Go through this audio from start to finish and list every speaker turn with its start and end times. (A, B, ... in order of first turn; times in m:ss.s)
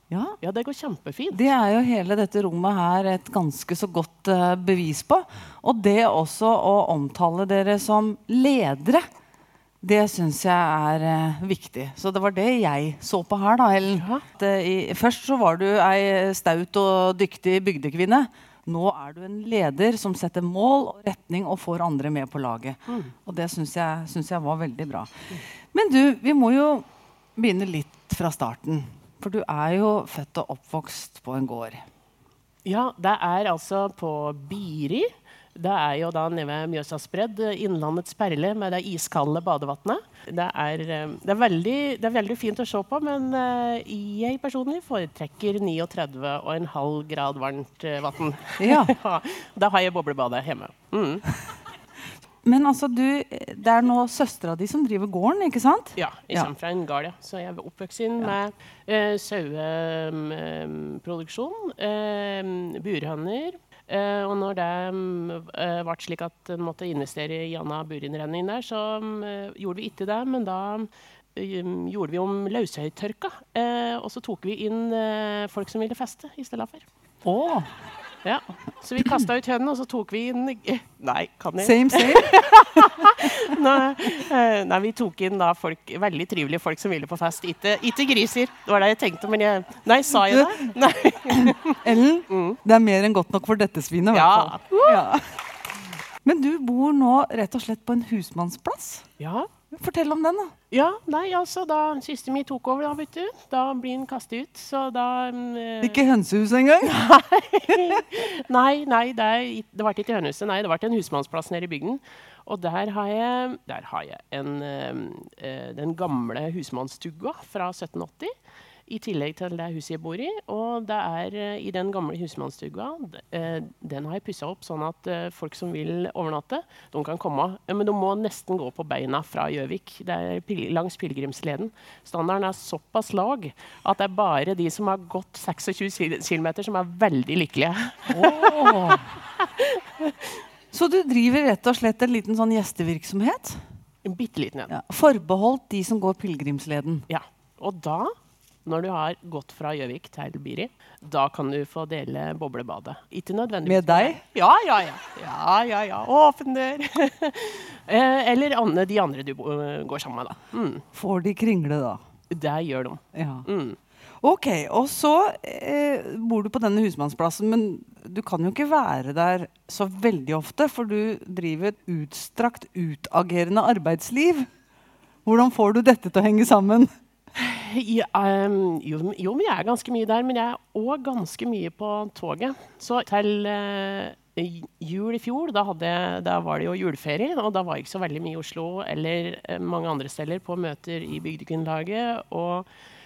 0:00.1-0:00.4 A
0:00.4-0:01.4 B
0:01.3-0:09.1 A
0:09.8-0:31.8 A
0:13.9-0:14.2 B
0:22.9-0:23.1 B
0:32.6-0:51.3 B
0:48.6-0:49.0 A
0:52.4-0:56.5 A
0:56.0-1:16.8 B
1:17.2-1:17.7 A
1:18.2-1:32.6 B
1:21.6-1:23.3 A
1:30.3-1:30.6 A
1:31.3-1:35.3 A
1:34.1-1:35.0 B
1:36.2-1:39.1 A
1:39.2-1:39.5 B
1:39.7-1:40.6 A
1:40.7-1:46.0 B
1:45.8-1:47.0 A
1:46.8-1:58.3 B
1:58.9-2:20.3 B
2:18.1-2:19.1 A
2:20.7-2:23.6 A
2:24.0-2:24.7 B
2:24.7-2:27.1 A
2:27.1-2:28.1 B
2:28.6-2:40.8 B
2:33.6-2:34.2 A
2:40.9-2:42.0 A
2:42.3-2:43.8 B
2:43.1-2:43.5 A
2:44.2-2:54.5 A
2:55.3-2:56.9 A
2:57.4-3:12.7 B